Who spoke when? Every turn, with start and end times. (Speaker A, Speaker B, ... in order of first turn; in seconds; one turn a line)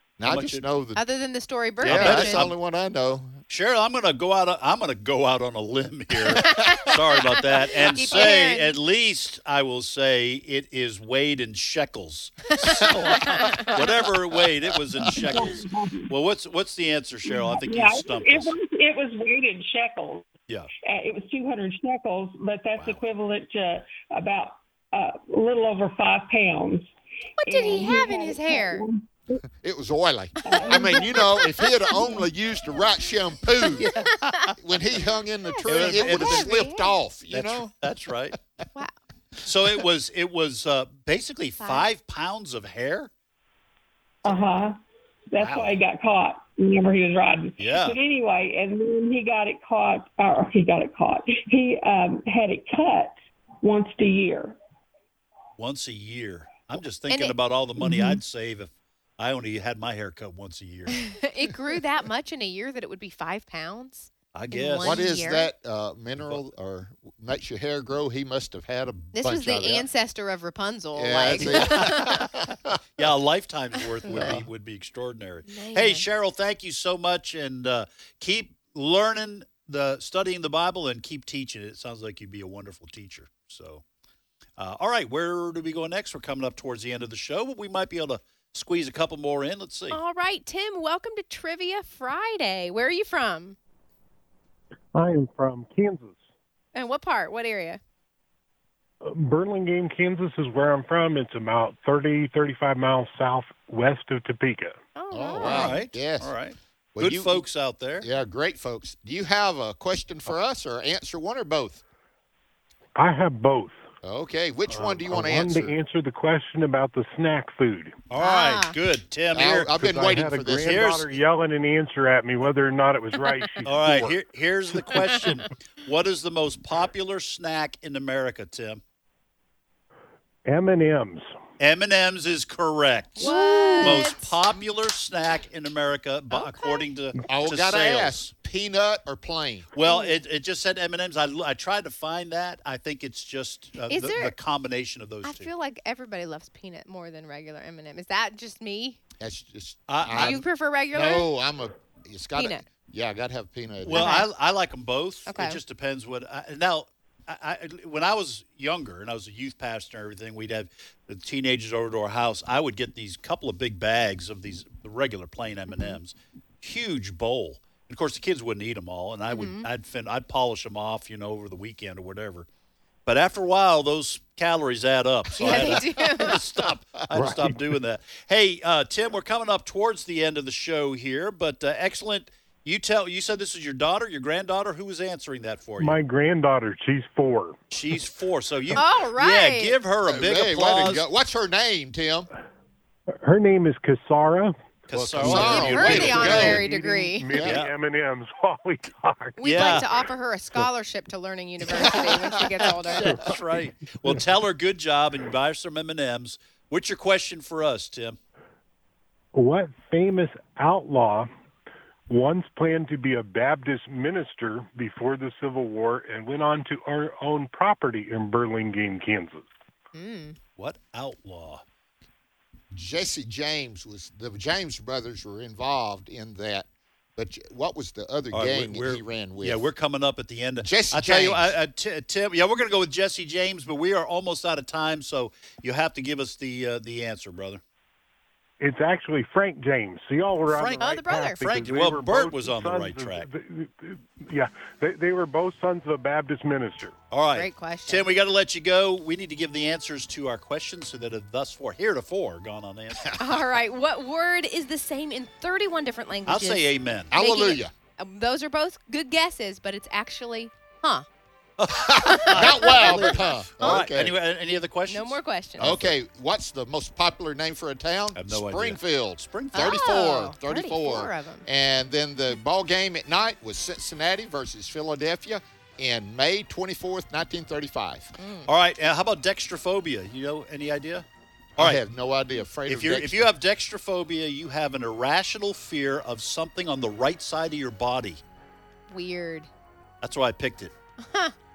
Speaker A: 0.2-1.0
Speaker B: 0.2-0.7
Speaker C: 0.9-2.4
Speaker A: 1.8-3.4
Speaker B: 1.8-2.5
Speaker B: 3.5-18.5
Speaker C: 6.5-6.9
Speaker C: 7.6-8.7
Speaker C: 13.3-13.6
Speaker A: 13.3-15.4
Speaker D: 15.1-16.1
Speaker D: 17.2-20.3
Speaker D: 20.8-26.9
Speaker C: 27.4-28.8
Speaker D: 27.4-29.4
Speaker A: 29.6-37.7
Speaker D: 30.4-31.3
Speaker C: 30.5-31.6
Speaker D: 31.9-32.2
Speaker C: 33.9-34.5
Speaker B: 34.0-34.5
Speaker C: 35.5-37.0
Speaker B: 35.6-36.5
Speaker B: 37.3-38.4
Speaker B: 39.4-43.1
Speaker C: 41.6-41.9
Speaker D: 44.2-44.8
Speaker D: 45.3-54.6
Speaker B: 45.4-45.8
Speaker B: 47.6-48.0
Speaker B: 55.6-61.1
Speaker C: 57.1-57.3
Speaker C: 61.1-65.5
Speaker B: 64.3-65.0
Speaker A: 64.8-69.9
Speaker B: 66.2-66.4
Speaker C: 69.1-72.0
Speaker A: 71.0-72.8
Speaker B: 71.3-72.3
Speaker B: 73.0-83.8
Speaker A: 74.0-74.5
Speaker C: 75.5-76.0
Speaker B: 84.6-90.0
Speaker C: 89.9-93.6
Speaker E: 94.9-96.2
Speaker C: 96.7-97.8
Speaker E: 99.0-104.8
Speaker C: 105.0-105.8
Speaker A: 105.1-106.3
Speaker B: 105.4-108.0
Speaker A: 106.9-107.5
Speaker A: 108.0-111.8
Speaker E: 113.0-113.8
Speaker A: 114.0-115.8
Speaker E: 114.7-118.0
Speaker B: 118.1-119.7
Speaker C: 118.2-118.7
Speaker A: 119.3-121.2
Speaker E: 119.8-124.1
Speaker B: 120.6-121.1
Speaker B: 123.6-128.8
Speaker E: 130.4-131.3
Speaker B: 131.6-138.3
Speaker C: 133.2-134.3
Speaker E: 133.6-133.8
Speaker C: 136.3-136.9
Speaker A: 137.3-139.7
Speaker B: 139.7-145.5
Speaker C: 139.8-140.2
Speaker C: 143.9-144.3
Speaker C: 145.2-149.0
Speaker A: 149.2-154.2
Speaker B: 149.9-150.4
Speaker C: 150.1-151.3
Speaker C: 152.3-152.7
Speaker B: 153.8-172.5
Speaker C: 153.9-154.3
Speaker C: 155.3-155.6
Speaker C: 165.7-166.0
Speaker C: 169.3-169.7
Speaker B: 173.1-186.0
Speaker A: 175.3-177.4
Speaker C: 175.4-176.4
Speaker E: 185.8-187.6
Speaker B: 187.7-191.0
Speaker C: 188.7-189.8
Speaker A: 190.1-192.3
Speaker E: 193.2-194.5
Speaker B: 194.9-196.6
Speaker A: 194.9-196.6
Speaker C: 195.2-197.3
Speaker E: 195.3-199.8
Speaker A: 197.3-197.6
Speaker B: 197.4-197.7
Speaker C: 199.4-203.2
Speaker B: 199.4-199.8
Speaker A: 201.7-202.7
Speaker B: 203.0-208.2
Speaker E: 209.3-211.3
Speaker E: 212.1-219.5
Speaker C: 219.9-220.4
Speaker B: 220.6-221.6
Speaker A: 222.7-229.6
Speaker B: 228.3-237.6
Speaker A: 230.6-231.5
Speaker E: 238.6-246.9
Speaker B: 240.5-243.3
Speaker C: 240.8-241.4
Speaker B: 247.1-253.1
Speaker C: 247.3-248.1
Speaker C: 253.2-261.1
Speaker B: 256.3-257.1
Speaker A: 257.1-257.7
Speaker B: 261.6-265.9
Speaker C: 262.0-263.9
Speaker A: 262.1-264.1
Speaker C: 264.9-265.8
Speaker A: 265.6-278.1
Speaker B: 268.1-269.8
Speaker C: 269.5-271.4
Speaker C: 278.2-278.5
Speaker B: 278.5-281.0
Speaker A: 281.6-283.3
Speaker B: 282.6-288.2
Speaker C: 288.9-289.5
Speaker B: 290.0-290.7
Speaker C: 291.0-291.3